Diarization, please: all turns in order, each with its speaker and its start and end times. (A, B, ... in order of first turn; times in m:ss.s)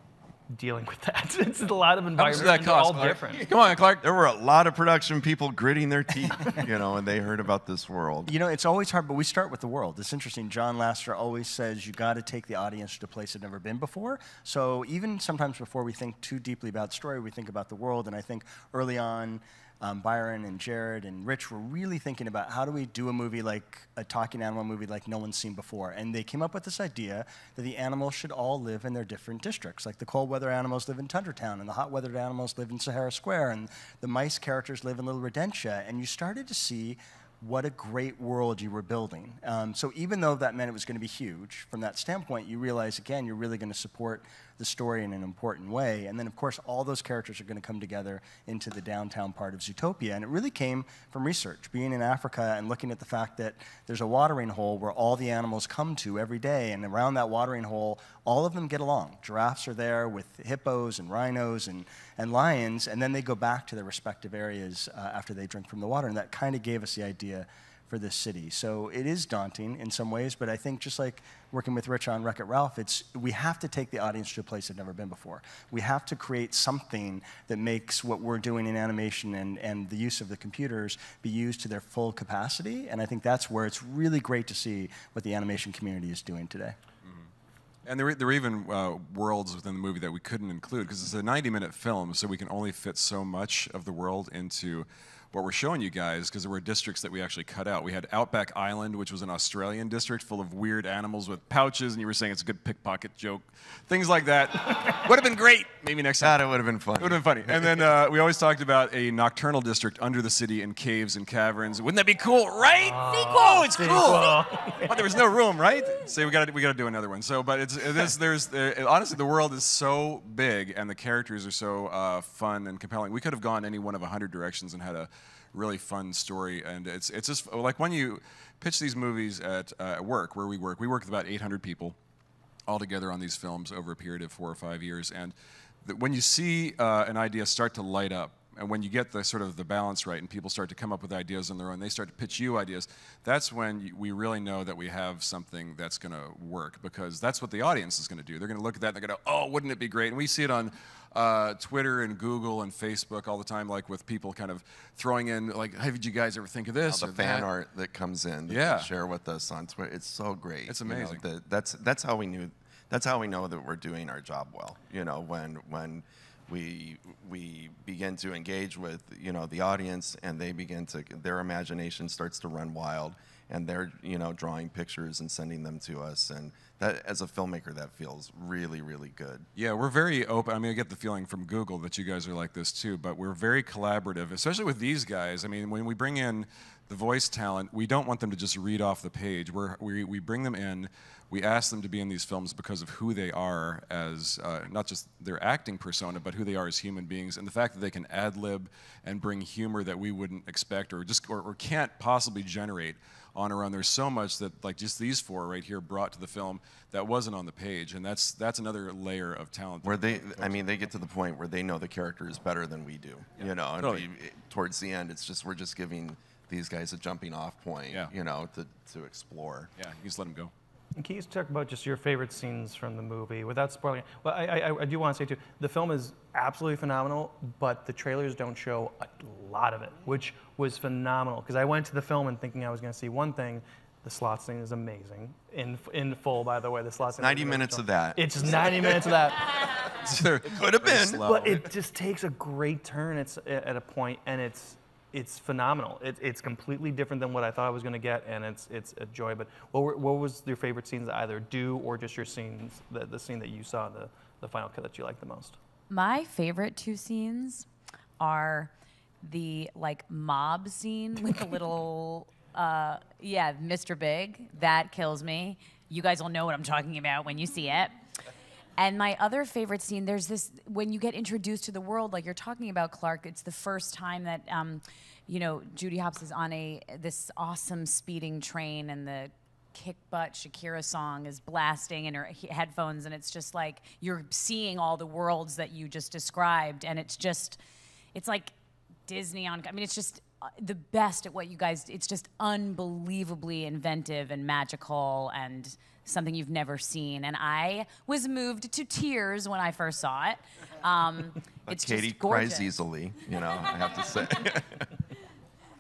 0:00.5-0:03.5 A
0:02.2-0:04.0 B
0:04.0-0:08.3 C
0:08.3-1:26.8 D
1:27.9-2:12.0 B
1:46.2-1:47.8 C
1:52.8-1:55.2 A
2:12.7-2:37.5 B
2:36.9-2:59.5 C
2:38.5-2:38.9 B
2:40.7-2:41.2 B
2:59.6-3:30.7 B
3:29.8-3:39.7 C
3:33.4-3:34.1 B
3:39.8-3:40.5 B
3:41.0-3:59.5 A
3:57.2-3:59.1 C
4:00.0-4:01.7 B
4:00.5-4:01.5 C
4:01.2-4:15.6 A
4:15.9-4:17.7 E
4:18.2-4:18.7 E
4:19.2-4:27.9 E
4:28.8-4:47.6 E
4:48.1-4:48.5 E
4:49.1-5:02.7 E
5:01.7-5:04.9 C